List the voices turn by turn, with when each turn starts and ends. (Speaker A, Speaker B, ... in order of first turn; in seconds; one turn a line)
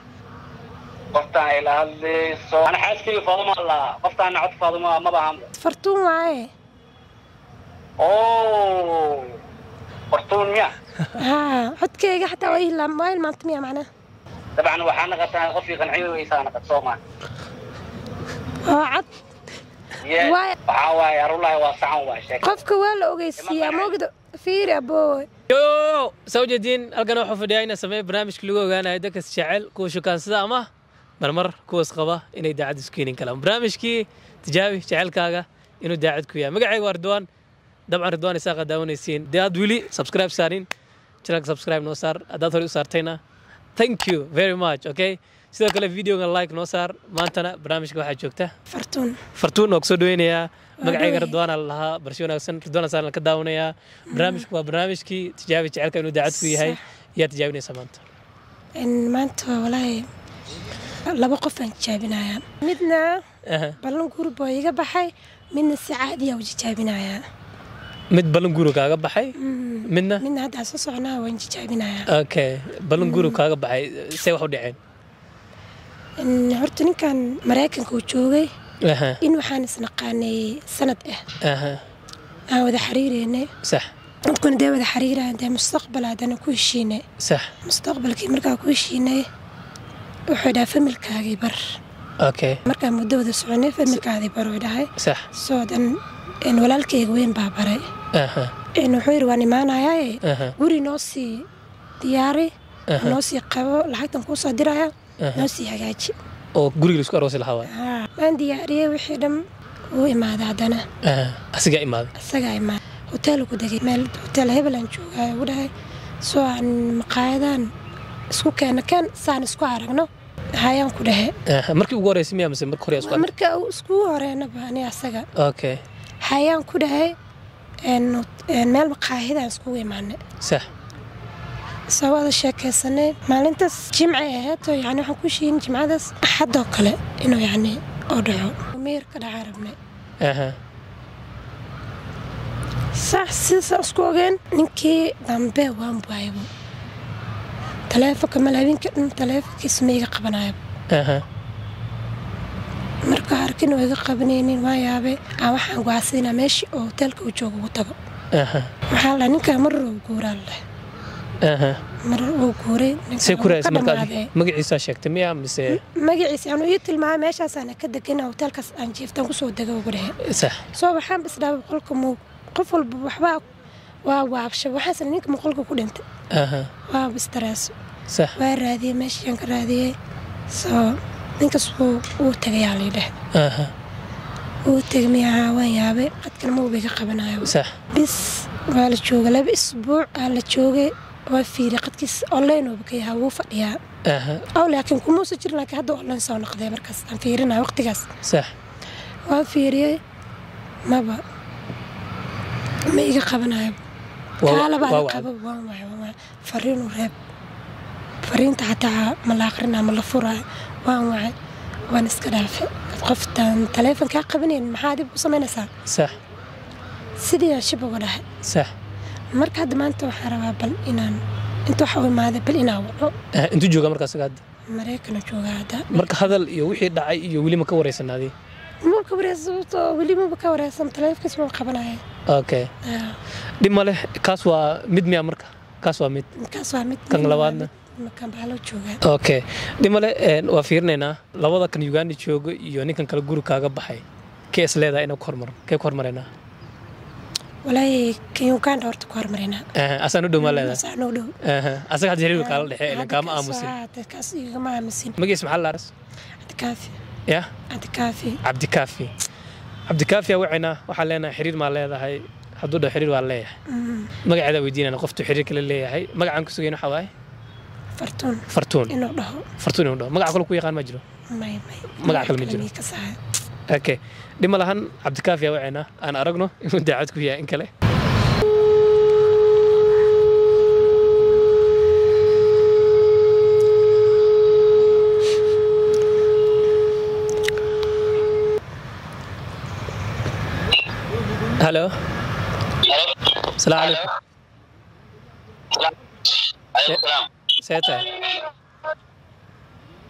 Speaker A: 1.1-5.5
Speaker B: 5.6-6.5
Speaker A: 8.0-9.3
Speaker A: 10.1-10.7
Speaker B: 11.2-13.9
Speaker A: 14.6-17.0
Speaker B: 18.6-19.1
Speaker A: 20.0-22.6
Speaker B: 20.2-20.5
Speaker B: 22.4-25.3
Speaker A: 23.4-23.9
Speaker C: 25.5-30.7
Speaker C: 31.2-37.3
Speaker C: 37.9-40.7
Speaker C: 41.2-43.2
Speaker C: 43.8-48.5
Speaker B: 48.7-49.2
Speaker C: 49.4-58.0
Speaker B: 50.8-51.4
Speaker B: 54.1-54.5
Speaker B: 56.3-56.8
Speaker B: 58.8-60.1
Speaker B: 61.1-63.2
Speaker C: 63.5-63.8
Speaker B: 63.8-67.2
Speaker C: 68.1-69.3
Speaker B: 69.4-72.1
Speaker C: 69.9-70.2
Speaker C: 72.1-74.8
Speaker B: 73.0-73.4
Speaker B: 76.2-78.5
Speaker C: 78.8-79.2
Speaker B: 79.2-81.2
Speaker C: 81.4-81.8
Speaker B: 82.5-83.5
Speaker C: 83.6-83.9
Speaker B: 84.3-87.0
Speaker C: 87.2-87.5
Speaker B: 87.7-89.3
Speaker B: 90.3-91.6
Speaker C: 92.2-92.6
Speaker B: 92.7-97.9
Speaker C: 95.0-95.3
Speaker C: 98.1-98.5
Speaker B: 98.8-101.5
Speaker C: 100.2-100.6
Speaker B: 102.0-106.2
Speaker C: 102.9-103.2
Speaker C: 105.2-105.5
Speaker C: 106.5-107.7
Speaker B: 107.7-109.4
Speaker B: 109.9-110.8
Speaker C: 111.0-112.1
Speaker B: 112.2-115.7
Speaker B: 116.2-117.7
Speaker B: 118.3-121.3
Speaker C: 121.5-123.3
Speaker B: 123.0-125.3
Speaker C: 125.4-125.8
Speaker B: 126.2-127.2
Speaker B: 127.8-130.2
Speaker C: 130.4-130.7
Speaker B: 131.9-139.8
Speaker C: 140.2-140.6
Speaker B: 142.9-146.5
Speaker B: 147.9-150.6
Speaker C: 150.9-151.2
Speaker B: 153.1-158.0
Speaker C: 158.3-158.7
Speaker B: 158.9-160.6
Speaker C: 161.4-161.8
Speaker B: 162.0-164.3
Speaker C: 163.2-165.8
Speaker B: 165.7-170.2
Speaker C: 170.2-170.6
Speaker B: 170.7-173.4
Speaker B: 174.1-176.0
Speaker C: 176.3-176.7
Speaker B: 176.9-177.8
Speaker C: 178.1-178.4
Speaker B: 178.4-179.9
Speaker B: 180.5-183.1
Speaker C: 183.3-183.7
Speaker B: 184.7-193.8
Speaker C: 187.4-187.7
Speaker C: 194.1-194.5
Speaker B: 194.6-198.1
Speaker C: 198.2-198.5
Speaker B: 199.3-200.0
Speaker B: 200.9-201.2
Speaker B: 202.9-203.8
Speaker C: 204.4-205.3
Speaker B: 204.4-207.2
Speaker B: 208.2-211.3
Speaker B: 211.9-215.7
Speaker C: 215.9-216.2
Speaker B: 217.2-218.2
Speaker C: 218.4-218.7
Speaker B: 219.3-223.2
Speaker C: 223.3-224.4
Speaker B: 224.7-226.2
Speaker C: 225.9-228.3
Speaker B: 228.8-232.0
Speaker C: 232.3-232.7
Speaker B: 232.8-233.2
Speaker C: 233.6-236.3
Speaker B: 236.4-239.0
Speaker C: 237.1-237.7
Speaker C: 239.0-246.3
Speaker B: 247.7-249.7
Speaker C: 249.8-250.8
Speaker B: 250.4-251.3
Speaker C: 251.4-253.8
Speaker B: 252.3-255.2
Speaker C: 255.2-255.9
Speaker B: 256.4-257.0
Speaker B: 257.7-258.4
Speaker C: 258.4-259.1
Speaker C: 259.9-263.5
Speaker B: 263.7-264.1
Speaker C: 264.2-267.1
Speaker B: 268.0-269.5
Speaker C: 268.5-268.9
Speaker C: 269.6-271.0
Speaker B: 271.3-273.2
Speaker C: 272.0-272.7
Speaker C: 273.7-277.7
Speaker C: 291.6-291.9
Speaker A: 292.9-294.0
Speaker C: 293.6-294.0
Speaker A: 295.8-297.3
Speaker C: 297.6-298.1
Speaker A: 298.2-298.5